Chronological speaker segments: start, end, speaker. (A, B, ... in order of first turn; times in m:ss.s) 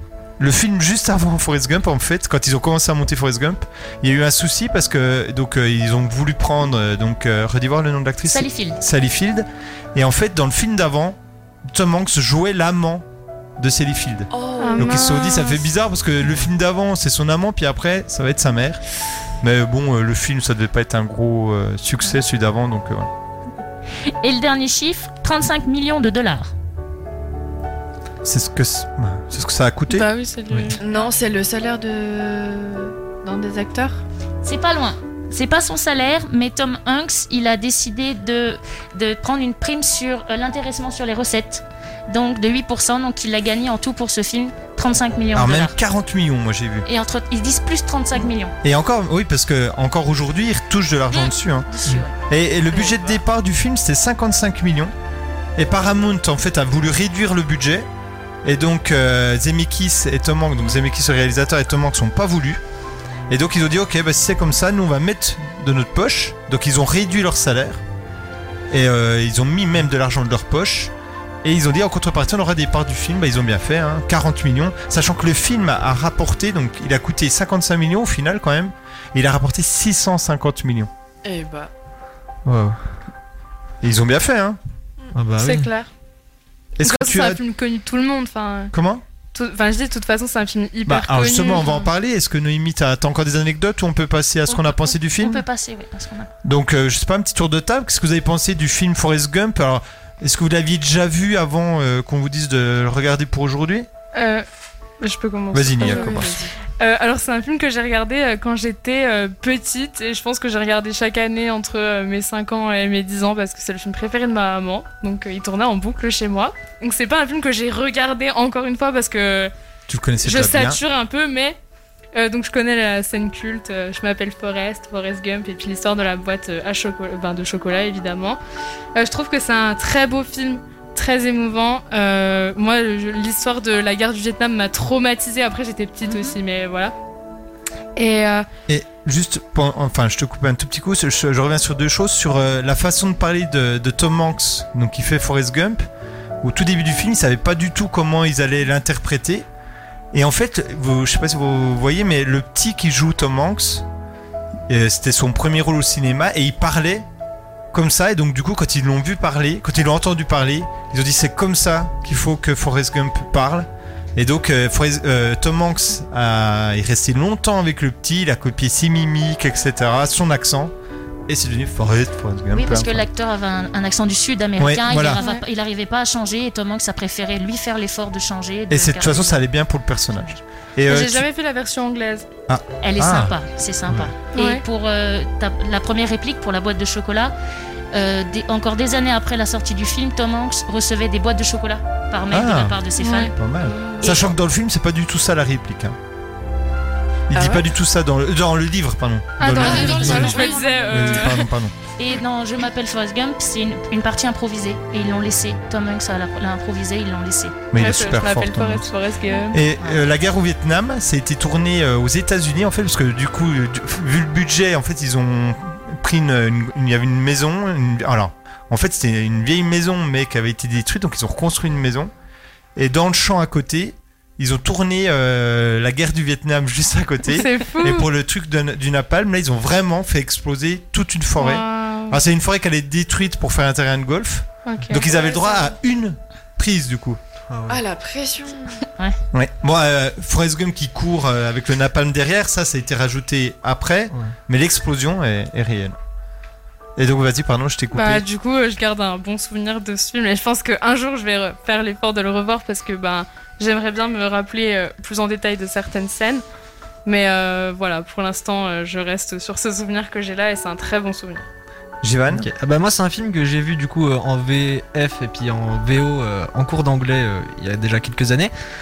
0:00.4-0:13.1 A
0:08.2-0:08.8 B
0:13.6-0:18.8 A
0:14.3-0:15.1 C
0:14.6-0:15.7 D
0:19.4-0:23.1 A
0:24.2-0:26.5 B
0:28.2-0:30.1 A
0:29.9-0:30.8 D
0:30.8-0:34.0 C
0:34.4-0:45.8 B
0:45.3-0:46.9 A
0:46.8-0:48.6 B
0:48.6-0:54.9 A
0:51.1-0:52.2 B
0:55.6-0:57.9 A
0:58.4-1:02.6 A
1:03.3-1:07.8 A
1:08.7-1:10.9 A
1:11.4-1:20.9 A
1:21.2-1:21.7 C
1:22.5-1:22.8 E
1:23.8-1:24.6 A
1:25.1-1:25.7 E
1:25.4-1:25.9 D
1:26.8-1:27.4 A
1:26.8-1:28.7 D
1:28.7-1:29.0 A
1:29.3-1:31.9 D
1:30.9-1:35.4 A
1:34.5-1:36.3 B
1:36.4-1:43.9 A
1:44.1-1:44.5 D
1:45.0-1:46.2 D
1:45.5-1:46.4 A
1:45.8-1:46.5 C
1:46.8-1:59.5 D
1:59.9-2:00.8 A
2:00.2-2:01.6 D
2:02.1-2:08.4 D
2:09.0-2:17.0 D
2:16.1-2:16.4 B
2:18.0-2:18.5 D
2:18.7-2:25.9 A
2:26.4-2:29.5 A
2:30.1-2:33.9 A
2:34.7-2:37.1 A
2:37.7-2:50.7 A
2:51.3-2:53.0 A
2:52.5-2:59.4 B
2:54.6-2:55.2 A
2:55.1-2:55.4 D
2:58.7-3:01.3 A
3:00.9-3:02.3 D
3:02.5-3:03.4 A
3:02.8-3:07.4 B
3:03.9-3:04.1 A
3:04.3-3:04.6 D
3:07.9-3:13.4 B
3:12.3-3:16.0 A
3:13.0-3:14.1 D
3:13.8-3:14.2 C
3:17.3-3:21.7 A
3:17.3-3:17.7 C
3:19.4-3:21.4 D
3:19.5-3:21.2 C
3:19.6-3:21.2 B
3:22.0-3:27.6 B
3:27.7-3:28.9 A
3:27.8-3:29.6 D
3:29.5-3:42.1 A
3:29.8-3:30.0 B
3:42.8-3:57.2 A
3:47.3-3:48.1 D
3:51.4-3:52.2 D
3:54.7-3:55.1 D
3:55.1-3:55.7 C
3:57.5-3:57.8 E
3:57.7-3:58.8 C
3:59.3-4:06.0 A
4:07.0-4:08.2 A
4:07.9-4:16.4 D
4:17.1-4:21.4 D
4:22.0-4:22.5 A
4:22.3-4:28.5 E